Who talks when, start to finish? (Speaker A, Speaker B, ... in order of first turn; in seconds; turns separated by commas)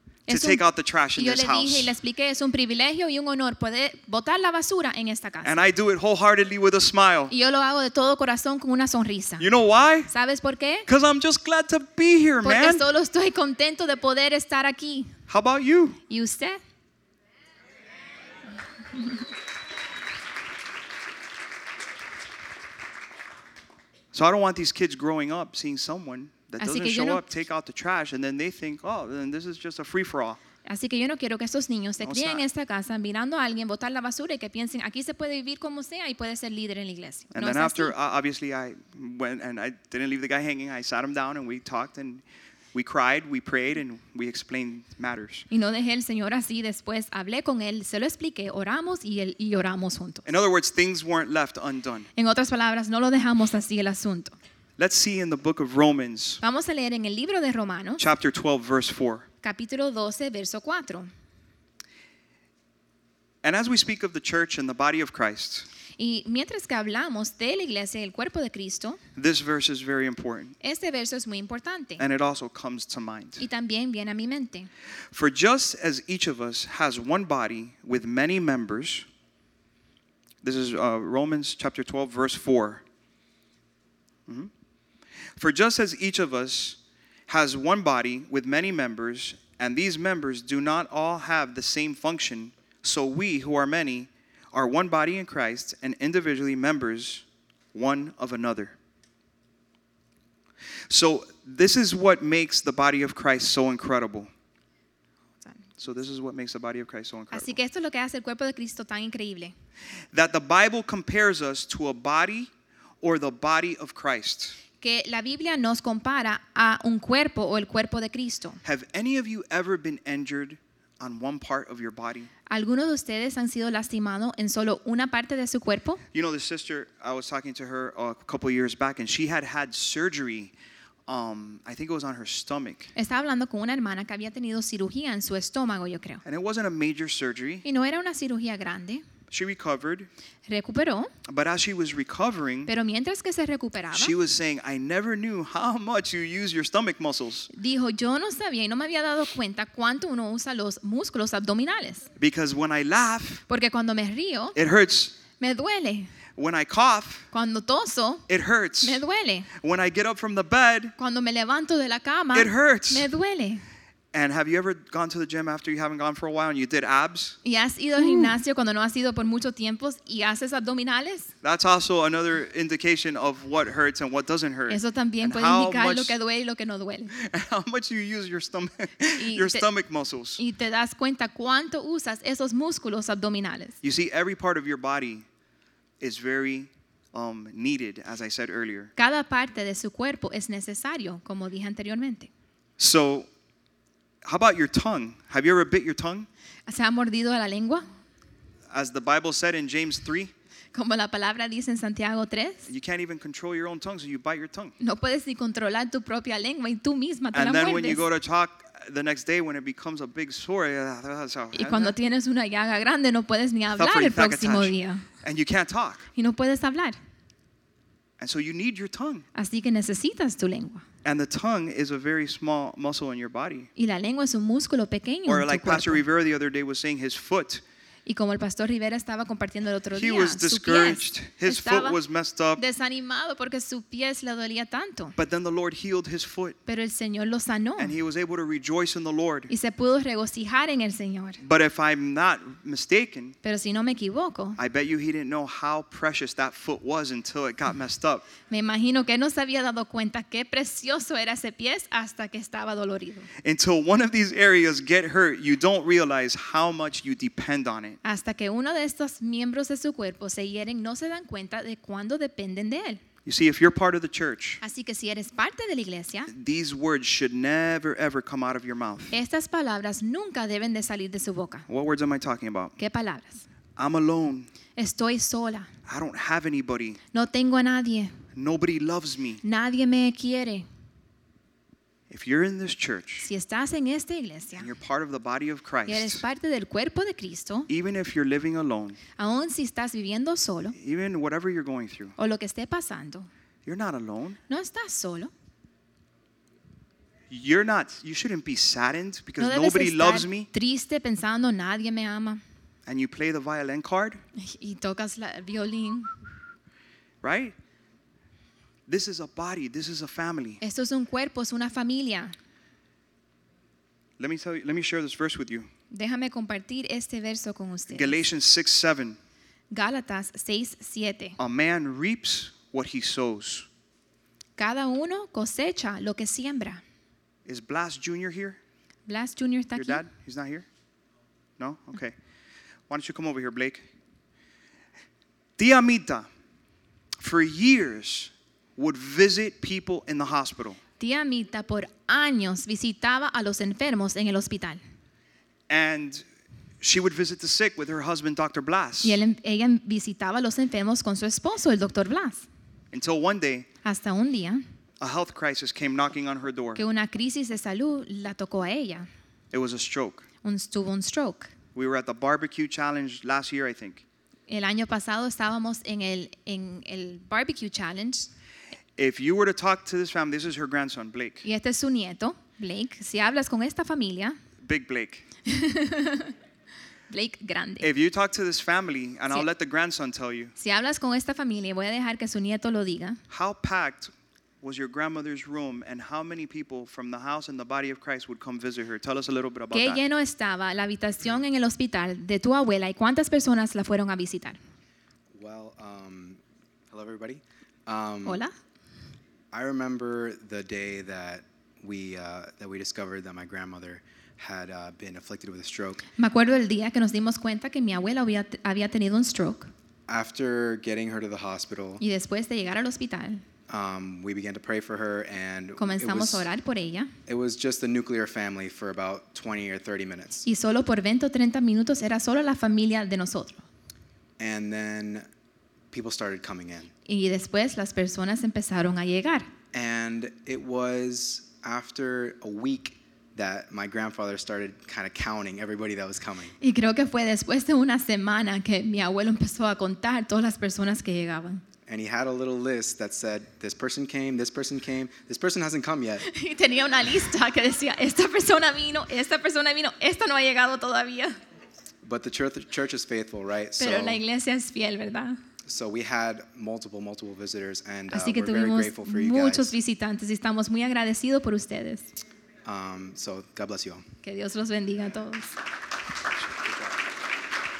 Speaker A: 0.3-0.6, Speaker B: 0.3-1.9, Speaker A: 1.1-5.5, Speaker B: 5.4-7.3, Speaker A: 7.3-9.5, Speaker B: 9.4-10.1, Speaker A: 10.1-10.9, Speaker B: 10.9-12.8, Speaker A: 12.4-15.2, Speaker B: 15.3-16.0, Speaker A: 16.1-16.6, Speaker B: 24.1-30.4, Speaker A: 26.6-27.2, Speaker A: 30.6-37.9, Speaker B: 32.0-32.4, Speaker B: 37.3-42.2, Speaker B: 42.7-45.5, Speaker A: 45.5-50.2, Speaker B: 50.2-52.1, Speaker A: 52.1-54.4, Speaker B: 54.8-56.4, Speaker A: 56.4-58.0, Speaker B: 58.0-59.2, Speaker A: 59.4-61.1, Speaker B: 63.4-65.7, Speaker A: 66.0-69.0, Speaker B: 69.2-70.5, Speaker A: 70.6-72.0, Speaker B: 72.0-73.4, Speaker A: 73.4-74.7, Speaker B: 75.1-79.0, Speaker B: 80.4-82.8, Speaker B: 85.4-98.7, Speaker B: 100.9-104.3, Speaker B: 105.8-107.6, Speaker A: 107.3-109.5, Speaker B: 110.1-112.5, Speaker B: 113.0-114.6, Speaker A: 114.8-118.6, Speaker B: 118.6-122.3, Speaker A: 122.5-126.0, Speaker B: 126.1-130.5, Speaker B: 131.1-132.9, Speaker A: 132.9-136.2, Speaker B: 136.2-137.6, Speaker A: 137.6-139.0, Speaker B: 139.3-140.1, Speaker A: 140.5-141.1, Speaker B: 141.2-142.7, Speaker A: 142.7-144.1, Speaker B: 143.9-147.5, Speaker A: 147.5-152.1, Speaker B: 152.2-153.4, Speaker A: 153.5-154.6, Speaker B: 154.5-155.1, Speaker A: 155.4-156.1, Speaker B: 156.3-157.3, Speaker A: 157.3-158.2, Speaker B: 158.3-159.0, Speaker A: 158.8-159.5, Speaker B: 159.6-160.9, Speaker A: 161.0-163.6, Speaker B: 162.3-163.1, Speaker B: 164.1-167.4, Speaker A: 167.4-171.3, Speaker B: 168.0-168.3, Speaker B: 171.4-176.1, Speaker A: 174.7-177.1, Speaker B: 177.1-180.4, Speaker A: 179.2-179.7, Speaker A: 180.4-183.8, Speaker B: 183.8-185.2, Speaker B: 186.0-188.9, Speaker A: 188.9-192.3, Speaker B: 192.8-193.3, Speaker B: 194.2-196.3, Speaker A: 196.7-197.8, Speaker B: 198.7-200.3, Speaker A: 200.7-202.7, Speaker B: 202.7-204.7, Speaker A: 204.8-208.0, Speaker B: 207.3-211.9, Speaker A: 211.5-215.1, Speaker B: 213.8-216.1, Speaker A: 216.2-217.0, Speaker B: 218.2-219.3, Speaker A: 219.3-220.8, Speaker B: 221.0-223.7, Speaker A: 223.8-226.0, Speaker B: 225.3-227.6, Speaker A: 228.1-232.0, Speaker B: 229.9-232.6, Speaker A: 232.6-235.1, Speaker B: 235.2-236.6, Speaker A: 236.7-237.9, Speaker B: 237.8-239.5, Speaker A: 239.5-241.4, Speaker B: 241.4-243.3, Speaker A: 243.4-244.6, Speaker B: 244.6-248.3, Speaker A: 248.5-253.3, Speaker B: 253.4-258.0, Speaker A: 258.0-263.0, Speaker B: 263.2-264.6, Speaker A: 264.6-266.3, Speaker B: 266.3-269.1, Speaker A: 269.1-271.7, Speaker B: 271.7-272.7, Speaker A: 272.8-273.4, Speaker B: 273.8-274.5, Speaker A: 274.8-275.7, Speaker B: 275.9-277.0, Speaker A: 277.1-278.1, Speaker B: 278.3-279.4, Speaker A: 279.4-280.7, Speaker B: 282.1-283.3, Speaker A: 283.2-284.7, Speaker B: 284.6-286.2, Speaker A: 285.9-287.7, Speaker B: 287.7-289.0, Speaker A: 289.2-290.7, Speaker B: 290.8-292.1, Speaker A: 292.2-293.3, Speaker B: 293.6-294.4, Speaker A: 294.5-295.3, Speaker B: 297.3-300.5, Speaker A: 299.4-302.4, Speaker B: 302.9-304.2, Speaker A: 304.4-306.1, Speaker B: 307.2-307.5, Speaker B: 308.9-310.6, Speaker A: 310.6-312.3, Speaker B: 314.2-315.7, Speaker A: 315.9-318.2, Speaker B: 317.9-319.2, Speaker A: 319.7-321.4, Speaker B: 321.4-323.7, Speaker A: 324.6-326.8, Speaker B: 327.4-328.6, Speaker A: 329.1-330.0, Speaker B: 329.7-330.6, Speaker B: 331.6-332.1, Speaker B: 332.9-333.8, Speaker B: 335.6-336.3, Speaker B: 337.2-340.8, Speaker A: 341.0-344.8, Speaker B: 345.7-346.2, Speaker B: 346.8-349.2, Speaker A: 349.0-352.4, Speaker B: 352.9-353.7, Speaker A: 353.8-354.6, Speaker B: 355.0-356.8, Speaker A: 356.8-359.1, Speaker B: 359.5-360.2, Speaker A: 360.4-361.5, Speaker B: 361.7-364.0, Speaker A: 364.5-368.3, Speaker B: 369.0-371.4, Speaker A: 371.4-374.4, Speaker B: 374.6-375.2, Speaker A: 375.4-376.3, Speaker A: 377.1-377.9, Speaker B: 377.8-380.5, Speaker A: 380.6-383.2, Speaker B: 383.3-384.1, Speaker B: 384.6-390.0, Speaker A: 389.7-394.6, Speaker C: 395.3-398.4, Speaker A: 398.2-398.5, Speaker C: 399.5-406.0, Speaker A: 406.2-409.7, Speaker C: 410.1-412.0, Speaker A: 412.0-413.4, Speaker C: 413.7-416.5, Speaker A: 415.8-417.1, Speaker C: 417.3-420.4, Speaker A: 420.4-423.6, Speaker C: 424.4-425.2, Speaker C: 425.9-426.9, Speaker A: 427.1-429.5, Speaker C: 429.7-436.5, Speaker A: 436.6-441.6, Speaker C: 441.9-446.2, Speaker A: 446.2-451.4, Speaker C: 452.0-454.2, Speaker A: 453.8-455.4, Speaker C: 455.6-459.7, Speaker A: 458.1-462.1, Speaker C: 462.6-464.1, Speaker A: 464.2-465.6